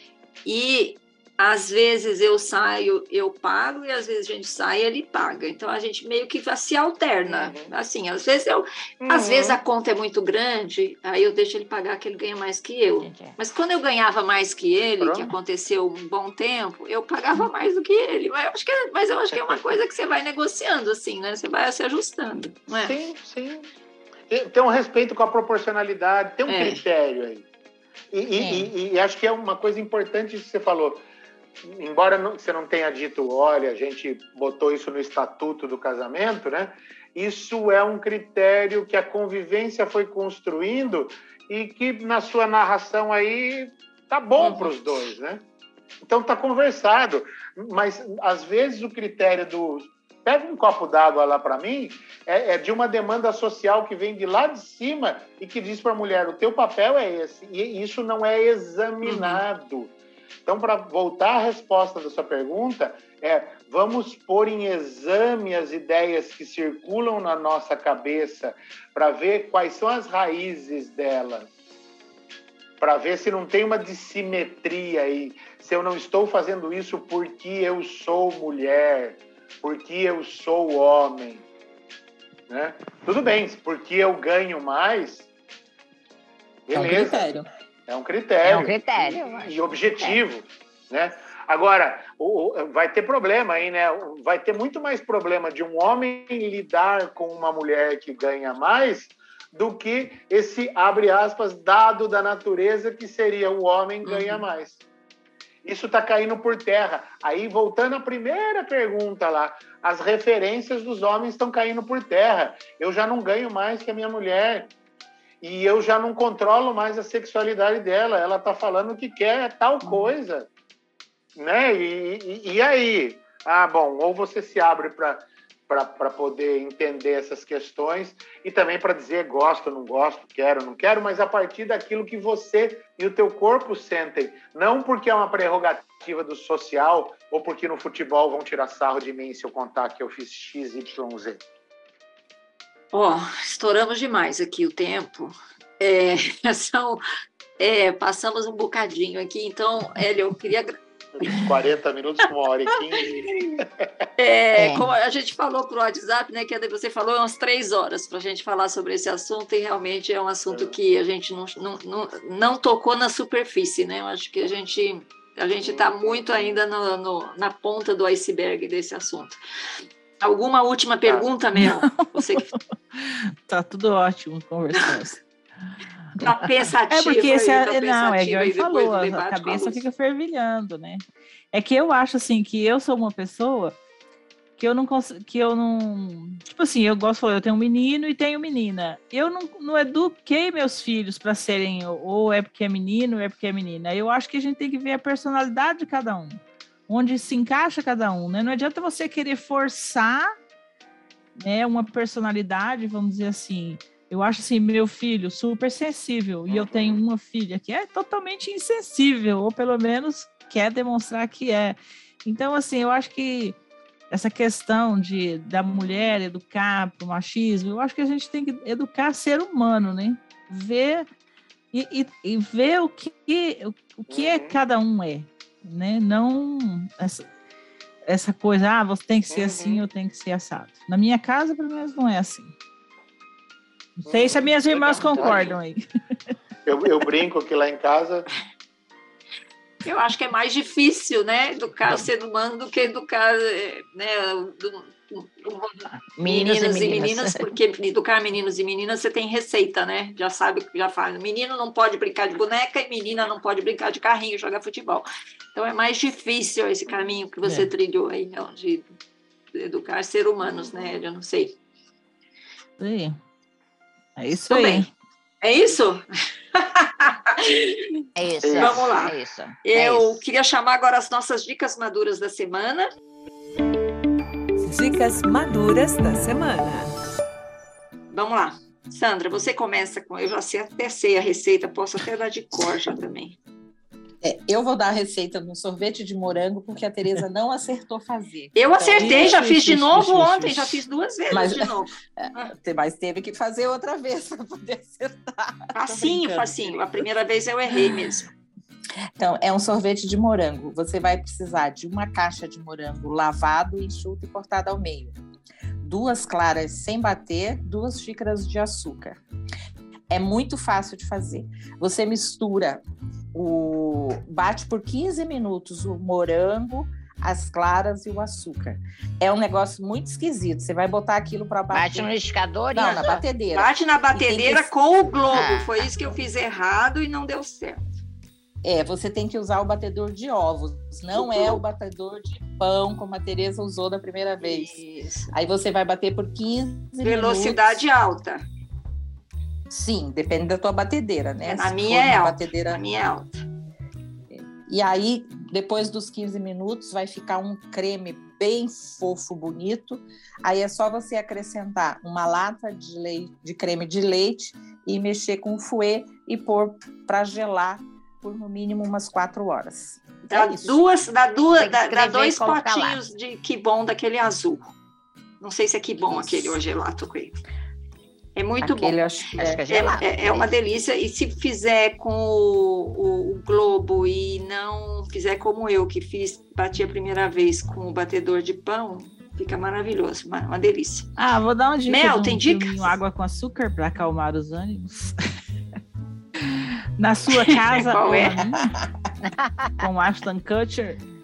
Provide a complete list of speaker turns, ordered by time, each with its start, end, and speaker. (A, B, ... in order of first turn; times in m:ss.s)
0:00.4-0:23.0 A
0:07.2-0:07.7 B
0:09.0-0:09.6 B
0:13.0-0:13.4 C
0:15.0-0:15.3 B
0:19.3-0:19.7 B
0:22.7-0:23.7 B
0:24.3-0:27.4 B
0:26.5-0:26.8 A
0:28.1-0:31.0 B
0:28.4-0:28.7 C
0:31.6-0:45.4 B
0:44.4-0:44.7 A
0:46.0-0:59.9 B
0:59.0-0:59.4 A
1:00.4-1:11.5 B
1:12.8-1:21.4 B
1:22.5-1:25.3 B
1:26.7-1:27.2 B
1:26.7-1:27.5 D
1:27.9-1:44.8 B
1:28.4-1:30.2 C
1:44.0-1:44.4 A
1:45.6-1:54.7 B
1:55.4-2:00.5 B
1:59.8-2:00.1 A
2:01.4-2:21.4 B
2:22.9-2:27.0 A
2:27.6-2:31.4 A
2:31.1-2:33.9 B
2:34.2-2:49.4 A
2:34.6-2:34.8 C
2:40.5-2:40.8 B
2:45.6-2:46.6 B
2:50.2-2:52.6 A
2:51.6-2:55.2 E
2:56.2-2:59.8 A
2:56.9-3:03.8 E
3:04.6-3:20.3 E
3:21.4-3:33.6 E
3:26.5-3:27.0 B
3:34.1-3:41.1 E
3:35.7-3:36.2 B
3:41.7-3:47.3 E
3:44.1-3:44.6 B
3:48.1-3:52.5 E
3:49.3-3:49.8 B
3:54.0-3:55.8 E
3:54.1-3:55.6 B
3:56.6-3:58.2 B
3:59.8-4:18.9 A
4:05.9-4:07.5 C
4:19.5-4:21.6 A
4:20.6-4:20.9 B
4:22.8-4:23.2 E
4:24.2-4:24.9 E
4:24.5-4:24.8 A
4:25.4-4:28.0 A
4:28.2-4:30.2 C
4:28.4-4:28.9 B
4:28.6-4:32.9 A
4:34.6-4:36.9 F
4:38.1-4:43.4 A
4:44.2-4:57.0 D
4:48.5-4:52.5 A
4:49.0-4:50.3 E
4:55.7-4:58.3 A
4:57.7-4:58.2 D
4:59.2-5:05.2 D
5:05.8-5:09.2 D
5:10.1-5:22.1 D
5:21.7-5:23.2 C
5:22.7-5:24.7 D
5:22.8-5:27.8 A
5:25.3-5:25.8 C
5:28.6-5:34.8 D
5:31.1-5:31.6 A
5:34.4-5:35.3 A
5:35.3-5:37.8 D
5:37.0-5:38.4 A
5:39.7-5:42.8 D
5:41.4-5:43.4 A
5:44.3-6:00.0 D
6:00.3-6:04.7 A
6:00.3-6:00.8 C
6:01.6-6:03.0 C
6:05.4-6:07.4 A
6:08.4-6:09.0 A
6:08.6-6:09.6 D
6:09.3-6:10.5 C
6:09.7-6:21.1 A
6:21.2-6:25.2 E
6:21.9-6:23.0 A
6:27.0-6:28.6 E
6:27.4-6:28.4 A
6:28.0-6:28.3 C
6:28.5-6:28.9 D
6:29.2-6:29.9 C
6:29.8-6:31.0 E